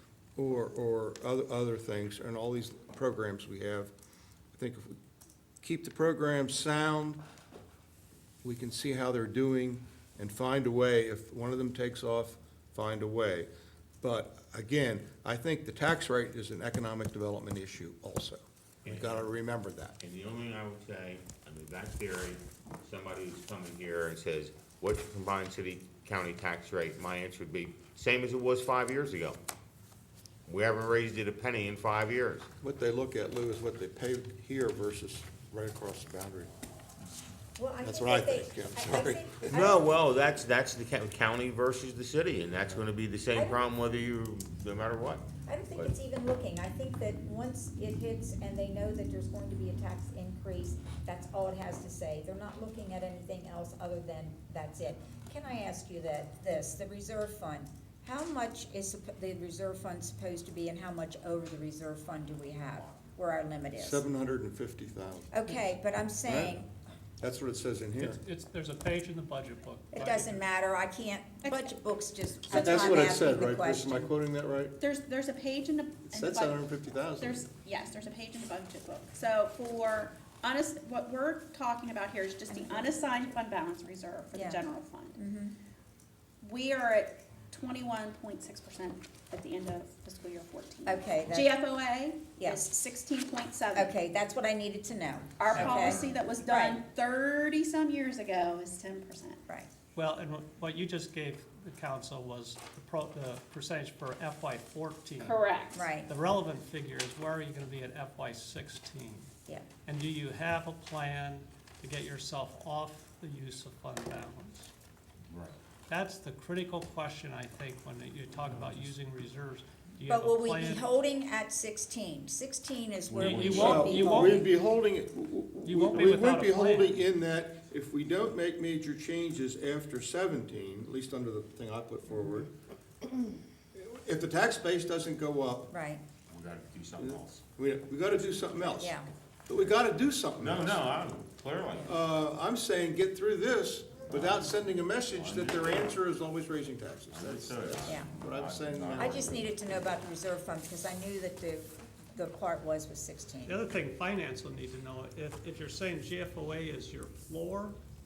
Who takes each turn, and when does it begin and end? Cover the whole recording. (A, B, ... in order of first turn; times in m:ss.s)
0:00.4-0:03.9 A
0:04.5-0:05.0 A
0:05.6-0:07.2 A
0:08.4-0:13.5 A
0:14.0-0:20.0 A
0:18.8-0:19.3 B
0:20.0-0:29.4 B
0:30.5-0:32.5 B
0:32.6-0:36.5 A
0:37.6-0:39.9 C
0:37.8-0:39.6 A
0:39.5-0:45.3 B
0:43.3-0:43.6 C
0:45.5-1:04.0 C
1:03.8-1:05.4 A
1:05.3-1:06.7 C
1:06.2-1:06.6 A
1:07.2-1:08.2 A
1:08.0-1:10.4 D
1:09.9-1:14.1 C
1:12.5-1:14.8 A
1:14.8-1:16.7 E
1:16.1-1:17.5 A
1:17.2-1:25.2 E
1:24.3-1:24.6 C
1:25.1-1:25.6 C
1:26.4-1:33.9 E
1:30.9-1:31.5 C
1:32.4-1:32.6 C
1:33.8-1:36.8 C
1:35.4-1:39.4 E
1:35.5-1:36.1 D
1:40.0-1:45.4 D
1:45.2-1:45.9 E
1:45.7-1:46.1 C
1:46.1-1:49.3 D
1:49.9-1:54.7 D
1:55.9-2:00.9 D
2:00.1-2:04.5 C
2:03.1-2:03.9 B
2:03.2-2:04.4 D
2:03.5-2:12.5 A
2:05.6-2:07.0 D
2:13.8-2:15.7 A
2:15.7-2:16.0 C
2:16.3-2:17.4 B
2:17.0-2:20.8 A
2:18.8-2:19.1 C
2:20.4-2:22.0 B
2:21.8-2:29.4 A
2:24.1-2:24.6 B
2:25.1-2:26.0 B
2:27.1-2:30.0 B
2:29.0-2:33.6 C
2:33.5-2:37.8 D